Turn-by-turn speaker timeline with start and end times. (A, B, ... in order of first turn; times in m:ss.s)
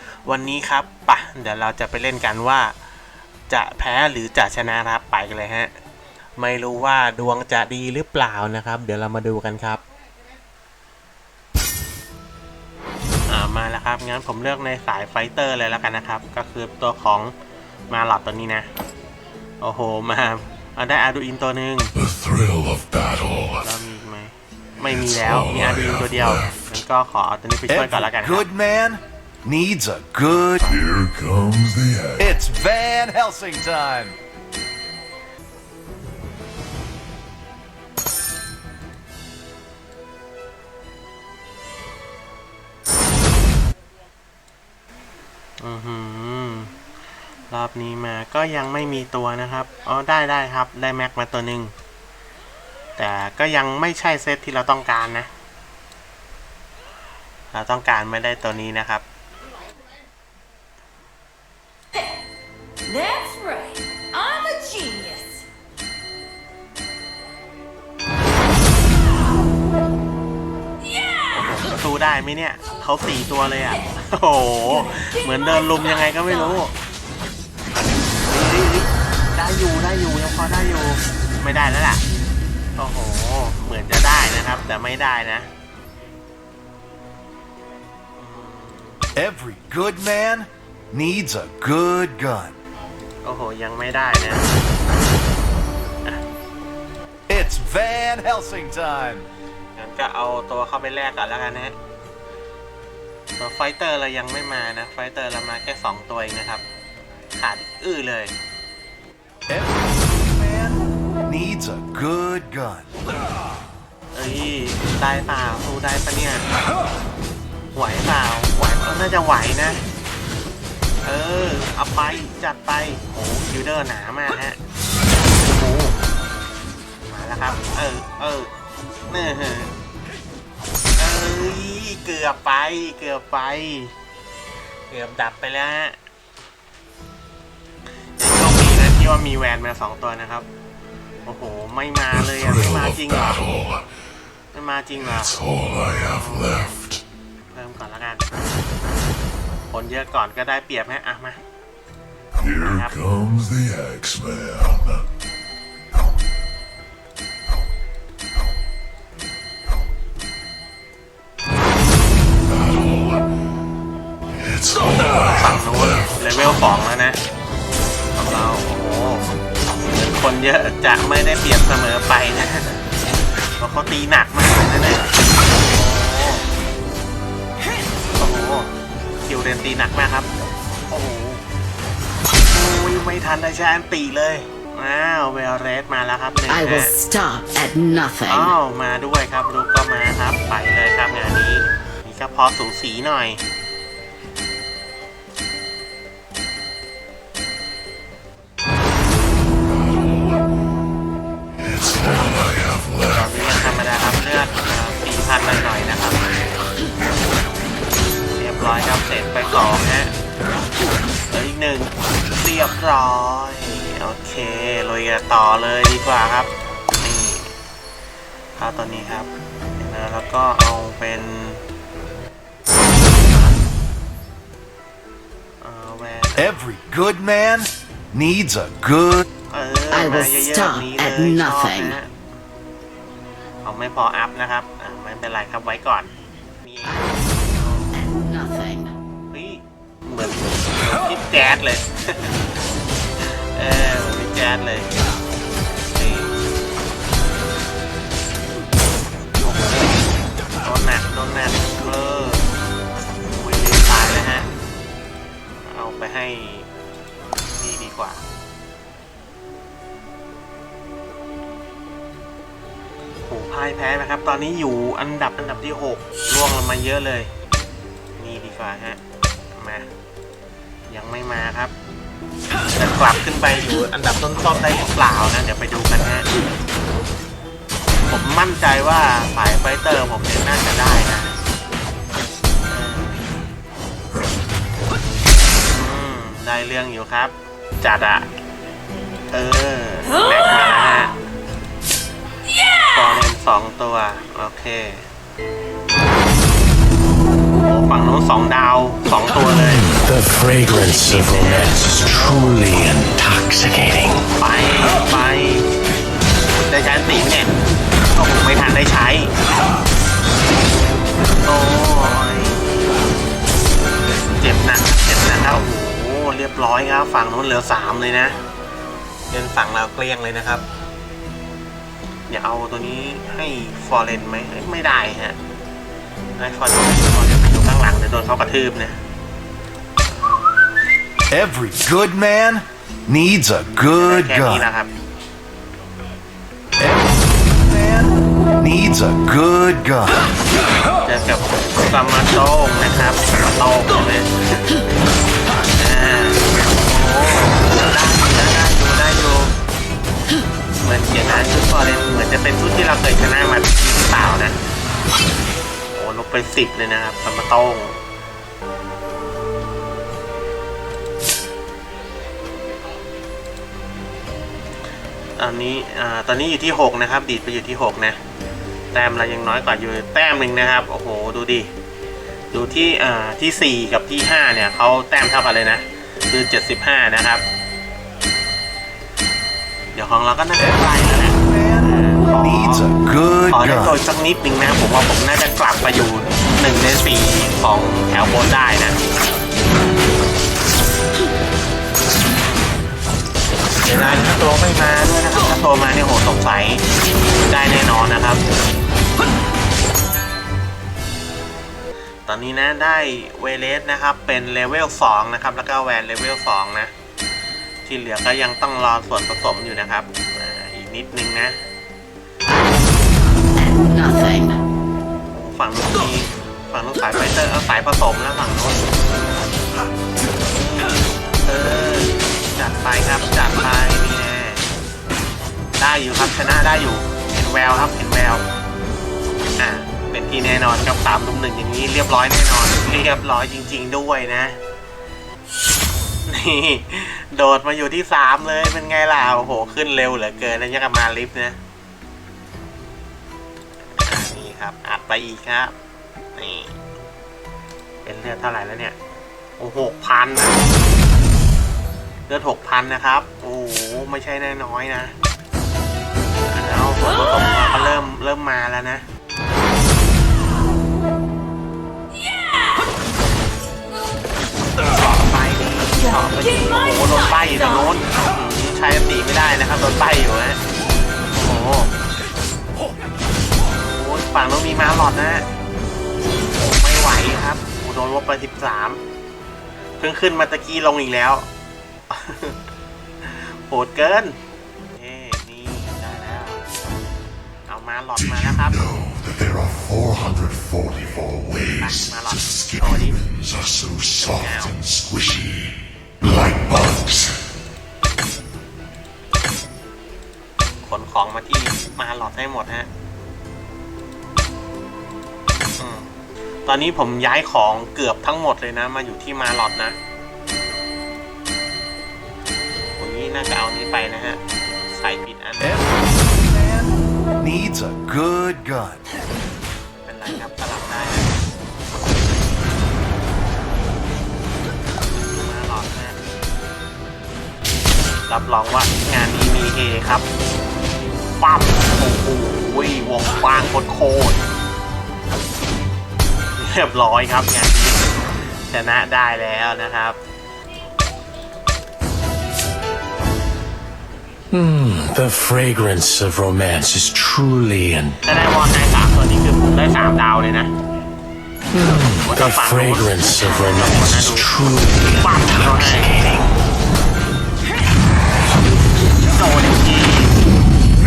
0:00.2-0:02.7 A
0:03.5-0:05.7 A
0:06.4-0:09.8 A
0:13.3-0:17.3 A
0:17.9-0:18.7 A
0:19.6-0:21.9 A
0:22.0-0:23.6 B
0:23.6-0:28.5 A
0:25.0-0:26.4 B
0:27.7-0:30.7 C
0:30.6-0:32.3 B
0:32.2-0:34.1 C
0:45.6-0:46.7 A
0:47.5-0:51.7 A
0:53.0-0:55.3 A
0:57.5-0:59.0 A
1:02.9-1:05.4 D
1:11.2-1:16.7 A
1:18.2-1:22.0 A
1:22.8-1:25.5 A
1:28.2-1:29.1 A
1:29.2-1:32.5 C
1:33.2-1:34.5 A
1:37.3-1:39.2 C
1:39.8-1:41.7 A
1:43.4-1:46.6 A
1:47.4-1:48.3 A
1:49.5-1:52.9 C
1:54.1-1:56.4 A
1:57.7-1:59.8 A
2:01.0-2:04.6 A
2:05.4-2:06.0 A
2:07.1-2:08.5 A
2:09.1-2:09.7 A
2:11.0-2:13.9 A
2:14.9-2:16.0 A
2:18.2-2:20.4 A
2:21.2-2:23.6 A
2:22.1-2:23.8 B
2:24.5-2:26.7 A
2:25.3-2:27.0 B
2:27.5-2:28.3 A
2:29.7-2:31.4 A
2:32.4-2:35.0 B
2:32.5-2:33.0 A
2:42.5-2:43.2 B
2:44.4-2:46.0 B
2:45.0-2:47.2 A
2:48.2-2:49.2 A
2:49.9-2:52.8 A
2:53.6-2:55.1 A
2:55.7-2:56.4 A
2:58.2-3:00.3 A
3:00.9-3:01.4 A
3:02.5-3:06.9 A
3:06.5-3:08.5 E
3:08.2-3:13.4 A
3:19.8-3:20.2 B
3:21.8-3:23.2 B
3:23.1-3:26.3 A
3:28.4-3:30.1 A
3:31.3-3:37.5 A
3:38.6-3:41.6 A
3:43.3-3:43.6 A
3:45.6-3:46.6 A
3:46.4-3:49.2 C
3:49.5-3:52.1 A
3:49.9-3:52.0 E
3:53.6-3:58.0 A
3:57.9-3:58.9 E
3:59.3-4:02.4 A
4:03.2-4:04.9 A
4:05.9-4:06.4 A
4:09.4-4:10.0 A
4:10.6-4:12.4 A
4:13.3-4:14.5 A
4:15.6-4:16.7 A
4:17.6-4:18.2 A
4:23.2-4:27.3 A
4:28.2-4:29.0 A
4:29.5-4:29.9 A
4:30.9-4:31.7 A
4:32.8-4:36.3 A
4:38.1-4:41.3 A
4:42.7-4:43.3 A
4:45.6-4:48.3 A
4:49.3-4:51.1 A
4:52.9-4:55.1 A
4:57.6-4:59.9 A
4:59.4-5:04.2 F
5:00.8-5:02.9 A
5:04.3-5:05.7 A
5:06.6-5:07.5 A
5:08.1-5:09.3 A
5:11.4-5:12.7 A
5:14.3-5:18.4 A
5:19.3-5:20.6 A
5:22.3-5:25.4 A
5:26.4-5:29.0 A
5:30.0-5:30.8 A
5:31.3-5:34.6 C
5:34.0-5:34.9 A
5:36.8-5:40.1 C
5:41.0-5:44.6 A
5:45.8-5:49.6 A
5:50.8-5:54.6 A
5:55.9-5:58.0 A
6:05.4-6:08.2 A
6:08.9-6:11.7 A
6:12.5-6:17.4 A
6:19.9-6:22.9 A
6:20.6-6:24.0 C
6:23.5-6:29.0 A
6:32.4-6:32.8 A
6:33.7-6:36.9 A
6:37.4-6:38.4 A
6:42.2-6:46.9 A
6:47.9-6:51.6 A
6:52.6-6:54.6 E
6:55.3-6:58.8 A
7:00.7-7:04.6 A
7:05.8-7:08.4 A
7:09.6-7:14.6 A
7:16.3-7:21.6 A
7:24.0-7:25.8 A
7:26.3-7:26.8 A
7:28.0-7:29.0 A
7:29.6-7:30.6 A
7:32.3-7:35.1 A
7:36.5-7:39.0 A
7:44.9-7:50.6 A
7:51.3-7:51.9 A
7:53.9-7:55.5 A
7:56.6-7:59.0 A
8:00.0-8:01.5 A
8:02.1-8:02.6 A
8:03.2-8:04.4 A
8:04.9-8:06.6 A
8:07.7-8:08.8 A
8:08.8-8:11.5 B
8:11.6-8:13.2 A
8:13.3-8:14.3 B
8:14.2-8:14.8 A
8:14.8-8:15.7 B
8:16.2-8:17.3 B
8:20.8-8:22.9 A
8:25.8-8:26.1 A
8:26.6-8:30.0 A
8:33.0-8:35.9 A
8:35.6-8:39.0 C
8:40.0-8:41.4 A
8:45.1-8:46.2 A
8:48.3-8:50.2 A
8:51.4-8:54.4 A
8:56.6-8:58.0 A
8:58.7-9:00.2 A
9:04.5-9:08.2 F
9:08.2-9:10.7 A
9:11.7-9:16.4 F
9:12.2-9:14.5 A
9:15.2-9:16.6 A
9:19.2-9:20.4 A